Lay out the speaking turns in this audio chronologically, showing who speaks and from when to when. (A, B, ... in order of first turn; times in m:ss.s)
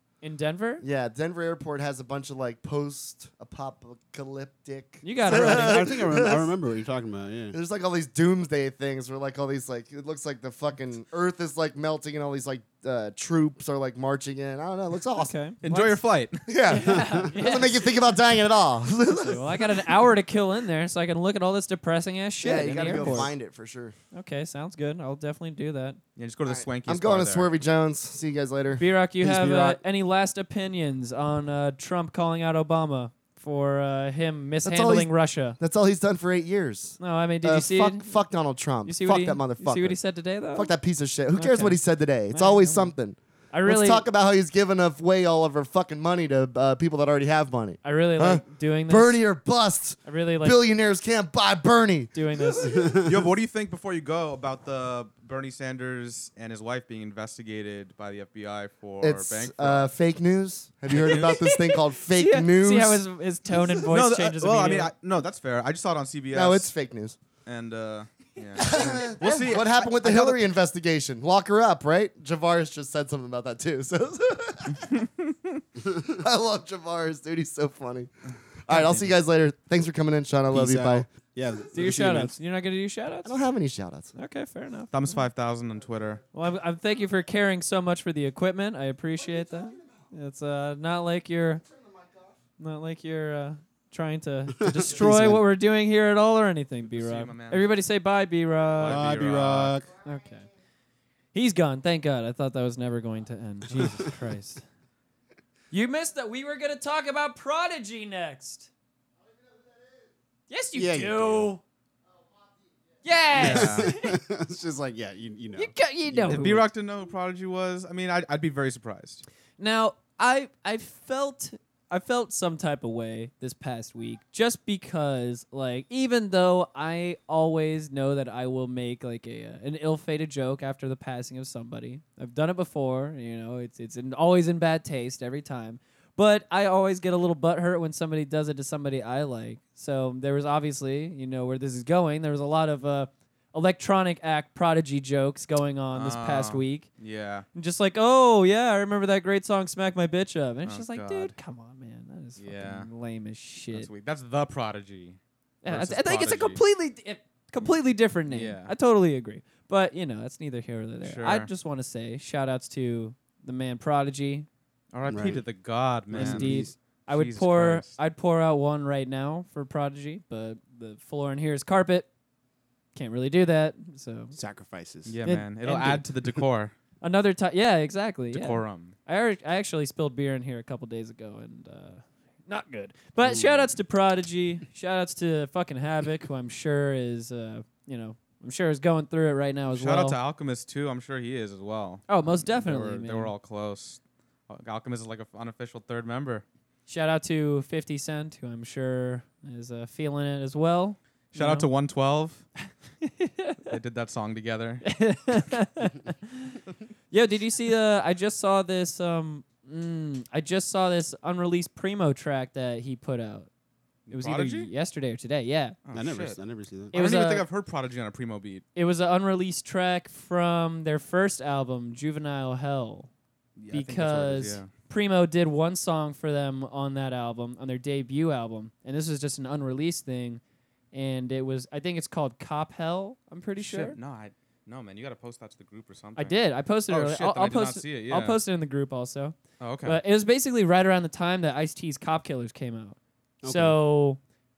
0:00.2-0:00.8 A
0:00.8-0:06.5 B
0:05.0-0:06.2 A
0:05.3-0:07.6 C
0:07.5-0:15.3 B
0:15.2-0:16.0 A
0:15.6-0:16.4 D
0:16.5-0:19.9 B
0:16.7-0:17.8 A
0:16.8-0:17.3 C
0:19.1-0:23.3 A
0:22.4-0:24.0 B
0:24.1-0:26.0 A
0:26.2-0:27.5 D
0:26.5-0:28.8 B
0:28.8-0:35.6 A
0:29.2-0:29.8 C
0:34.6-0:40.0 B
0:37.0-0:38.2 A
0:38.8-0:40.7 A
0:40.5-0:53.0 B
0:41.4-0:41.8 A
0:42.3-0:42.9 A
0:43.5-0:44.1 A
0:47.8-0:49.2 A
0:50.0-0:50.6 A
0:52.1-0:52.7 A
0:53.0-0:59.9 D
0:59.0-1:03.0 B
1:01.0-1:01.3 D
1:01.1-1:04.9 A
1:03.8-1:06.7 D
1:06.3-1:07.2 B
1:07.4-1:10.4 D
1:08.6-1:14.9 B
1:14.8-1:15.6 D
1:15.9-1:18.1 B
1:18.6-1:21.1 B
1:18.7-1:19.0 A
1:20.5-1:22.4 C
1:21.7-1:23.4 A
1:23.2-1:24.1 B
1:24.2-1:25.2 A
1:24.9-1:26.2 D
1:26.3-1:31.6 A
1:31.7-1:32.4 B
1:32.6-1:39.0 A
1:34.6-1:35.4 C
1:36.9-1:37.7 D
1:38.8-1:39.8 D
1:38.8-1:39.9 C
1:40.0-1:40.5 A
1:41.3-1:44.6 A
1:43.7-1:44.0 C
1:45.7-1:48.7 A
1:50.5-1:51.6 A
1:50.8-1:51.5 C
1:53.0-1:54.2 A
1:53.3-1:56.6 C
1:53.4-1:54.0 D
1:55.6-1:56.7 A
1:56.3-1:59.2 D
1:59.6-2:26.9 A
2:25.9-2:27.5 D
2:27.5-2:33.9 A
2:30.7-2:31.3 D
2:32.4-2:32.9 D
2:33.7-2:36.6 D
2:35.6-2:44.5 A
2:38.3-2:38.7 D
2:41.0-2:41.5 D
2:44.9-2:47.9 D
2:45.1-2:45.4 C
2:46.1-2:46.8 C
2:46.1-2:52.1 A
2:53.0-2:54.4 A
2:54.4-2:55.2 C
2:55.1-2:56.7 D
2:55.2-2:56.0 A
2:57.0-3:10.2 A
2:58.3-2:59.0 D
3:03.2-3:03.7 C
3:09.7-3:16.4 D
3:12.1-3:13.3 A
3:16.9-3:21.7 A
3:21.3-3:22.5 D
3:23.0-3:23.7 A
3:23.7-3:24.8 D
3:24.8-3:26.6 A
3:27.1-3:33.5 A
3:34.1-3:34.7 D
3:34.1-3:35.8 A
3:35.8-3:36.4 D
3:35.9-3:37.0 C
3:36.9-3:38.6 D
3:36.9-3:37.5 A
3:38.8-3:43.1 A
3:43.6-3:44.7 D
3:43.7-3:50.4 A
3:50.9-3:54.0 A
3:53.6-3:58.4 D
3:56.2-4:04.2 A
3:59.6-4:00.0 D
4:03.4-4:03.8 C